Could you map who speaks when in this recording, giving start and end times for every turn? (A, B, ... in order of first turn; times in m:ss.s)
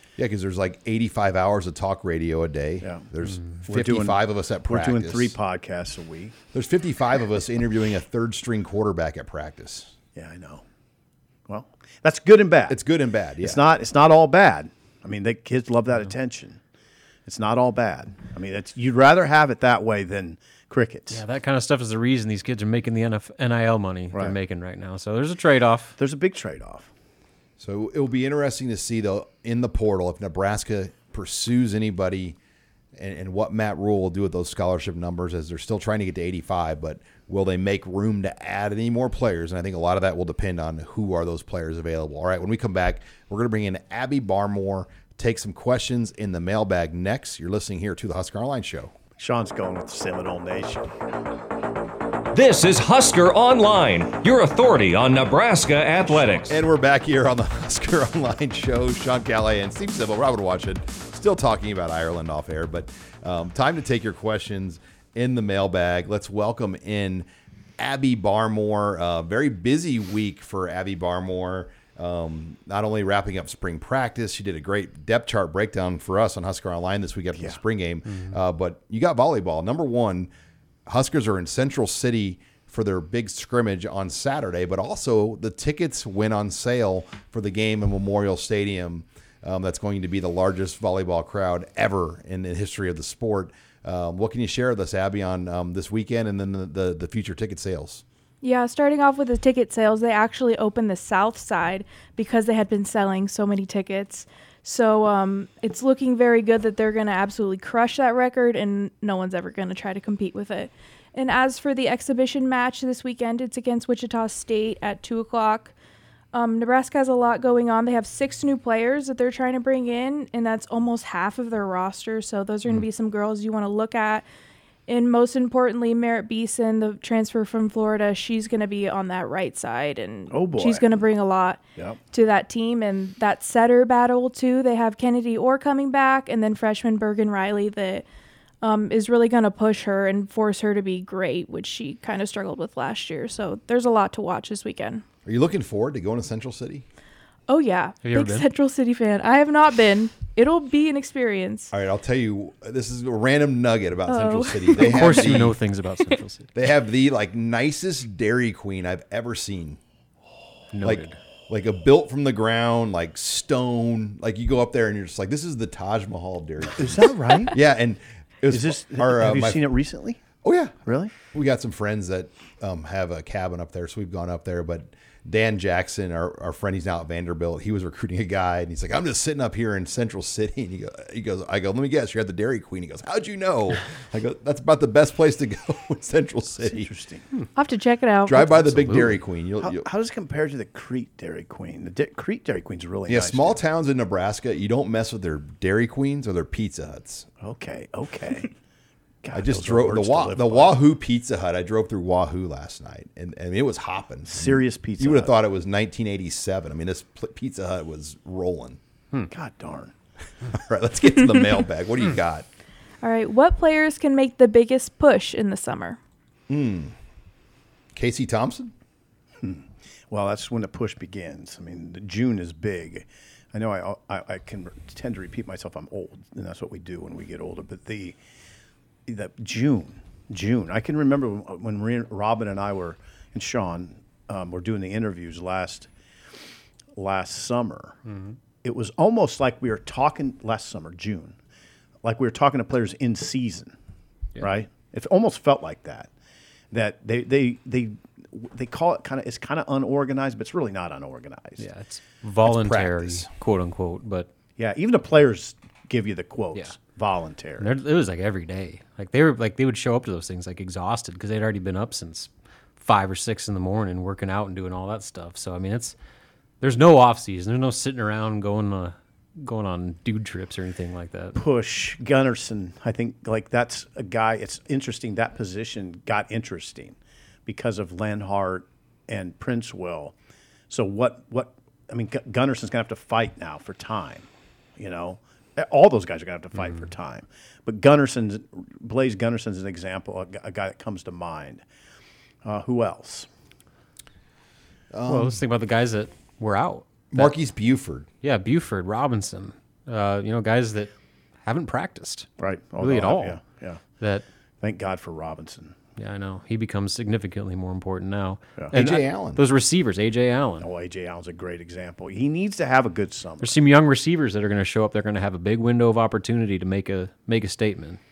0:00.2-0:05.4 A
0:02.8-0:03.1 B
0:03.7-0:06.4 B
0:06.5-0:09.9 A
0:10.2-0:10.6 B
0:11.5-0:12.8 B
0:12.7-0:13.6 A
0:13.4-0:16.6 B
0:17.3-0:21.2 B
0:21.1-0:26.0 C
0:26.0-0:26.9 B
0:27.6-0:32.4 A
0:33.0-0:48.9 A
0:49.2-0:50.9 B
0:52.3-0:56.6 D
0:56.4-1:07.3 A
1:07.8-1:20.3 A
1:20.9-1:38.0 A
1:38.4-1:55.7 E
1:56.3-2:04.2 E
2:04.9-2:11.6 E
2:10.3-2:10.9 B
2:12.1-2:18.0 E
2:18.6-2:25.0 E
2:25.2-2:26.8 A
2:27.5-2:31.7 E
2:28.0-2:28.5 C
2:31.7-2:35.6 A
2:34.1-2:35.3 E
2:34.7-2:36.5 C
2:36.5-2:39.8 A
2:40.7-2:41.2 C
2:40.8-2:49.7 A
2:46.8-2:47.6 B
2:48.5-2:50.2 B
2:50.4-3:06.9 A
2:50.9-2:51.1 B
3:06.6-3:07.2 B
3:07.6-3:09.1 E
3:08.3-3:09.9 A
3:09.6-3:13.6 B
3:13.1-3:17.3 A
3:17.4-3:18.5 B
3:19.2-3:20.7 B
3:19.3-3:28.8 A
3:24.3-3:25.4 B
3:29.3-3:29.9 B
3:30.4-3:32.5 A
3:33.0-3:36.0 E
3:36.5-3:37.0 A
3:38.0-3:38.7 A
3:39.4-3:48.2 B
3:49.1-3:55.9 B
3:57.0-3:58.0 B
3:58.1-3:58.4 C
3:58.6-4:01.4 B
4:02.0-4:03.7 B
4:04.4-4:06.1 B
4:06.7-4:11.7 B
4:11.6-4:14.3 C
4:12.4-4:13.3 A
4:14.6-4:17.7 B
4:17.6-4:26.0 C
4:26.6-4:31.4 C
4:31.4-4:40.1 B
4:40.7-4:51.6 B
4:52.4-4:53.3 B
4:54.9-4:55.4 A
4:55.1-4:57.4 C
4:57.1-4:58.1 A
4:58.2-5:00.9 C
5:01.4-5:02.3 C
5:02.4-5:03.8 B
5:02.8-5:03.4 C
5:04.0-5:04.2 C
5:04.6-5:05.8 B
5:06.0-5:10.7 C
5:08.7-5:09.4 A
5:10.6-5:13.6 B
5:13.4-5:18.0 C